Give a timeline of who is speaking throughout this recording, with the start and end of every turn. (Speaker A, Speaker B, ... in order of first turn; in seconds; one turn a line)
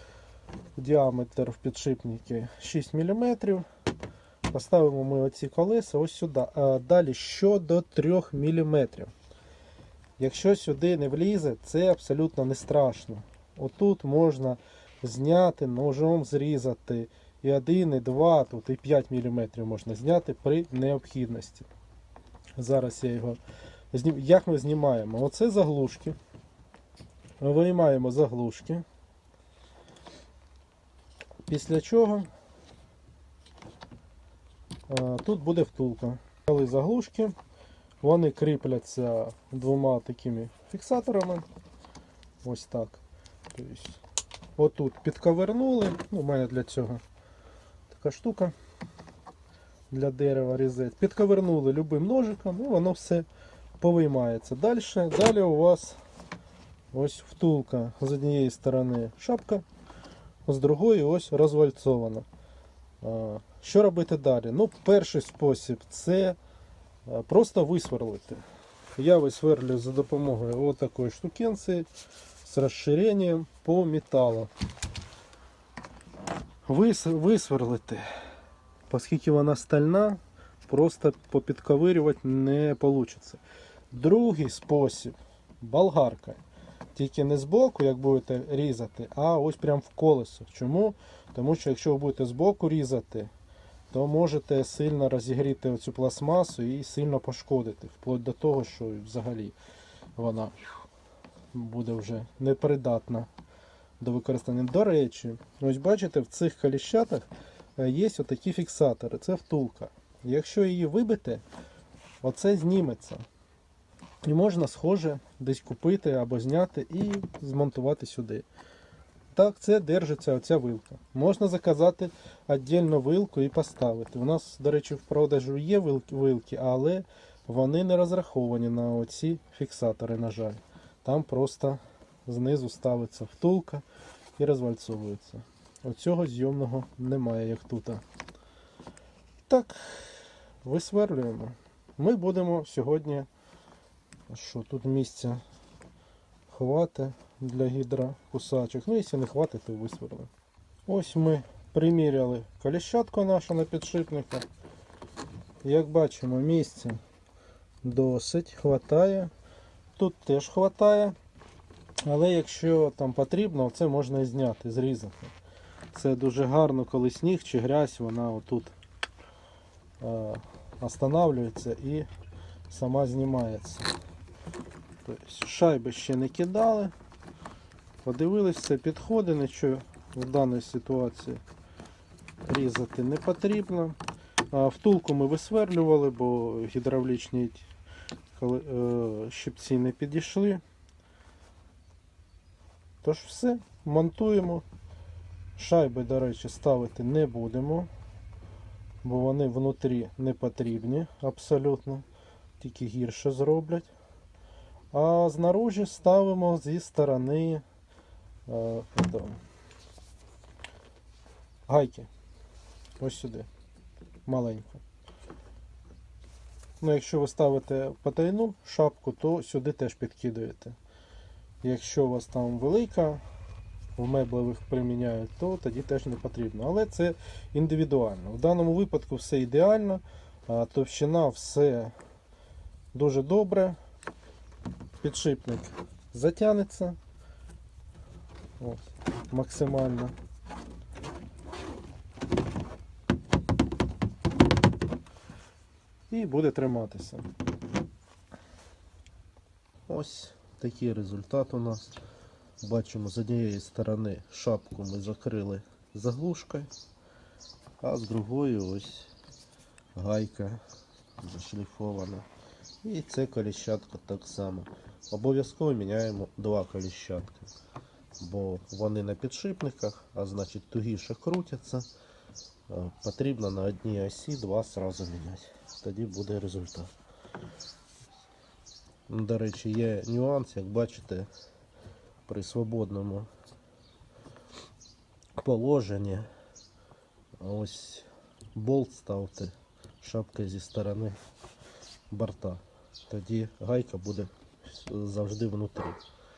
Speaker A: 0.8-3.7
Speaker A: 4.5-9.1
Speaker A: 10.2-21.7
Speaker A: 22.6-23.4
Speaker A: 23.9-26.2
Speaker A: 27.4-28.9
Speaker A: 31.5-32.3
Speaker A: 34.9-37.4
Speaker A: 38.0-41.5
Speaker A: 42.4-43.0
Speaker A: 43.5-44.0
Speaker A: 44.6-47.0
Speaker A: 47.9-48.5
Speaker A: 49.9-53.3
Speaker A: 53.8-56.0
Speaker A: 56.9-59.6
Speaker A: 60.5-62.3
Speaker A: 63.0-66.4
Speaker A: 67.1-68.4
Speaker A: 69.0-71.9
Speaker A: 72.4-74.5
Speaker A: 76.7-78.1
Speaker A: 78.9-83.4
Speaker A: 83.9-86.4
Speaker A: 87.0-93.3
Speaker A: 93.9-99.6
Speaker A: 100.2-100.7
Speaker A: 101.5-103.3
Speaker A: 104.0-111.4
Speaker A: 112.2-113.2
Speaker A: 114.3-118.5
Speaker A: 119.3-133.8
Speaker A: 134.4-138.0
Speaker A: 139.5-143.3
Speaker A: 144.3-145.4
Speaker A: 146.5-150.3
Speaker A: 150.9-154.5
Speaker A: 155.6-157.0
Speaker A: 157.8-159.3
Speaker A: 160.0-161.2
Speaker A: 162.1-165.3
Speaker A: 165.9-168.8
Speaker A: 170.0-172.1
Speaker A: 172.7-173.9
Speaker A: 175.0-176.9
Speaker A: 178.0-181.4
Speaker A: 182.4-184.0
Speaker A: 184.5-187.7
Speaker A: 188.3-190.6
Speaker A: 193.0-194.7
Speaker A: 195.6-197.9
Speaker A: 199.0-202.1
Speaker A: 202.6-203.9
Speaker A: 204.9-207.6
Speaker A: 208.5-209.4
Speaker A: 211.7-212.1
Speaker A: 213.0-213.5
Speaker A: 214.3-214.8
Speaker A: 216.8-220.8
Speaker A: 221.6-223.2
Speaker A: 224.0-231.9
Speaker A: 232.9-233.8
Speaker A: 235.0-237.0
Speaker A: 238.6-240.2
Speaker A: 246.1-247.3
Speaker A: 249.9-251.9
Speaker A: 252.6-256.7
Speaker A: 257.8-259.1
Speaker A: 259.9-260.6
Speaker A: 261.2-262.3
Speaker A: 262.8-267.5
Speaker A: 268.2-271.9
Speaker A: 272.7-276.9
Speaker A: 279.1-281.3
Speaker A: 282.3-283.3
Speaker A: 285.4-286.3
Speaker A: 287.4-291.2
Speaker A: 292.1-296.0